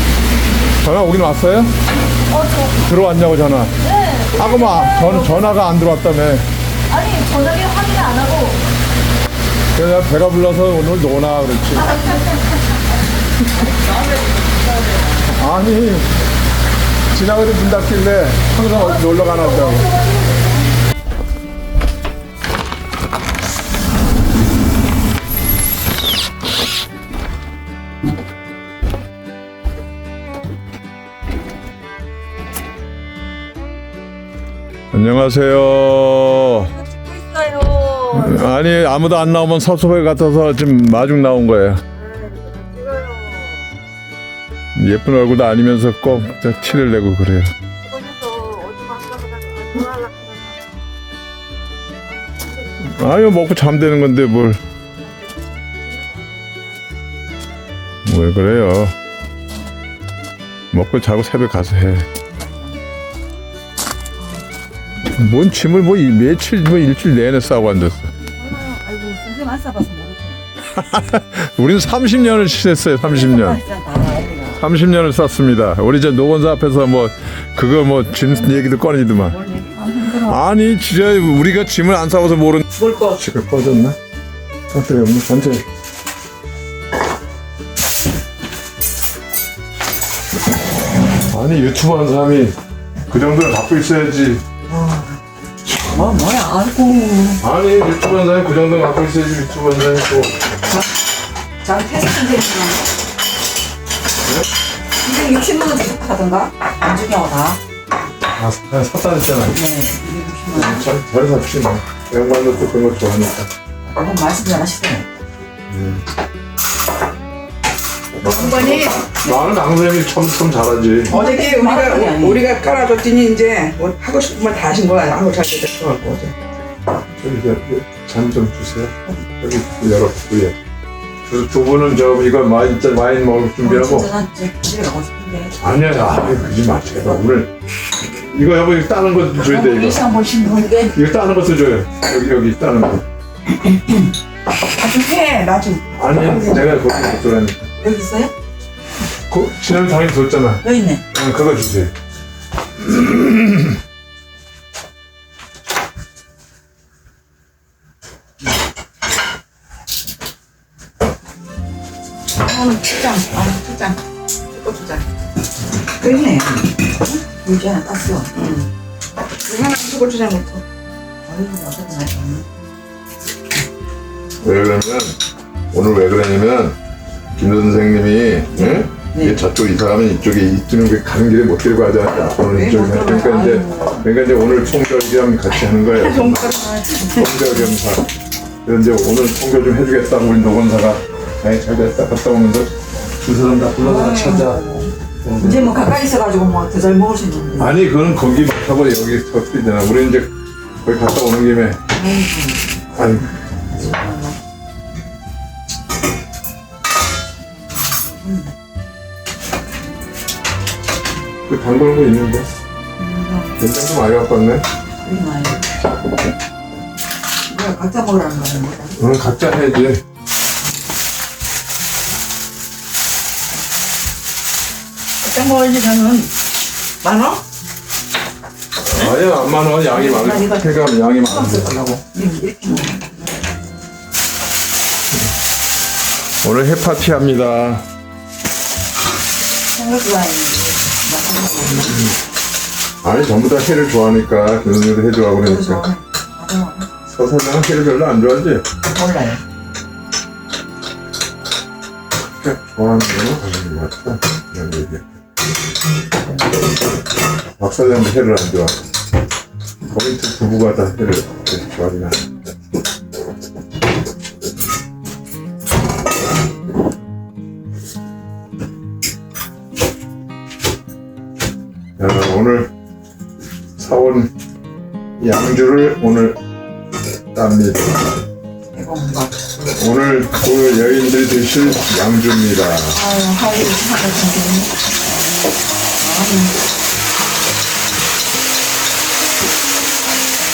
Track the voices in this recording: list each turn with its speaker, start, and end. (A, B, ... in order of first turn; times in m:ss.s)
0:00.8-0:01.7 A
0:02.3-0:02.8 B
0:02.8-0:03.8 A
0:03.8-0:05.4 B
0:04.3-0:06.5 A
0:06.9-0:08.6 B
0:09.7-0:12.0 A
0:15.2-0:16.1 A
0:17.1-0:20.0 A
0:19.2-0:20.4 B
0:34.9-0:36.7 A
0:37.5-0:38.0 B
0:38.1-0:41.8 A
0:42.4-0:43.1 C
0:42.9-0:43.4 B
0:44.8-0:47.5 A
0:48.0-0:50.4 B
0:52.8-0:54.6 A
0:58.0-0:58.9 A
1:00.7-1:02.1 A
1:02.3-1:02.9 C
1:05.1-1:08.1 A
1:08.2-1:10.5 C
1:10.7-1:13.6 A
1:13.0-1:14.6 C
1:14.6-1:19.4 A
1:19.2-1:20.4 C
1:20.2-1:22.6 A
1:22.8-1:23.2 C
1:23.2-1:24.0 A
1:24.7-1:25.6 A
1:31.3-1:32.6 A
1:33.1-1:34.4 A
1:34.7-1:35.2 C
1:35.7-1:37.4 C
1:37.4-1:40.4 A
1:41.6-1:42.9 C
1:45.0-1:47.6 C
1:48.3-1:49.6 A
1:49.5-1:50.9 C
1:50.5-1:53.5 A
1:53.8-1:55.1 C
1:55.7-1:56.0 A
1:58.2-2:01.1 A
1:58.2-1:59.1 D
2:01.1-2:02.4 C
2:01.1-2:06.3 D
2:07.1-2:10.5 A
2:11.2-2:14.1 A
2:13.6-2:15.6 C
2:15.6-2:17.5 A
2:18.1-2:20.0 A
2:19.4-2:21.0 C
2:20.9-2:23.0 A
2:24.7-2:26.6 D
2:25.9-2:27.7 A
2:27.8-2:28.3 C
2:29.3-2:31.9 A
2:30.6-2:31.0 C
2:32.8-2:33.8 A
2:42.4-2:44.0 D
2:44.5-2:45.0 D
2:46.0-2:48.5 C
2:48.3-2:48.7 D
2:49.4-2:50.6 D
2:51.2-2:52.4 C
2:54.4-2:55.2 A
2:55.7-2:56.8 A
2:57.4-3:06.5 A
2:59.1-2:59.4 C
3:02.5-3:04.0 C
3:05.8-3:06.9 D
3:06.5-3:07.7 C
3:07.1-3:08.1 A
3:08.6-3:15.8 A
3:13.8-3:17.8 C
3:17.6-3:20.3 A
3:20.8-3:21.8 A
3:21.9-3:22.8 C
3:22.9-3:23.3 A
3:23.7-3:24.4 C
3:28.0-3:28.5 C
3:31.5-3:32.5 A
3:33.0-3:33.6 C
3:33.6-3:34.6 A
3:35.0-3:35.7 C
3:37.5-3:39.0 C
3:39.0-3:40.0 A
3:45.2-3:46.3 D
3:47.0-3:47.4 D
3:48.8-3:51.7 A
3:49.8-3:53.2 C
3:56.4-3:57.8 A
3:59.7-4:02.1 C
4:01.8-4:02.1 A
4:03.0-4:05.8 A
4:05.4-4:06.9 C
4:07.0-4:08.6 A
4:08.9-4:09.4 C
4:12.4-4:15.0 A
4:17.6-4:18.8 A
4:19.9-4:22.3 A
4:32.0-4:32.7 A
4:33.8-4:34.3 A
4:35.2-4:36.4 A
4:37.3-4:38.0 A
4:38.7-4:39.4 C
4:39.6-4:43.0 A
4:42.9-4:44.7 C
4:46.0-4:46.6 C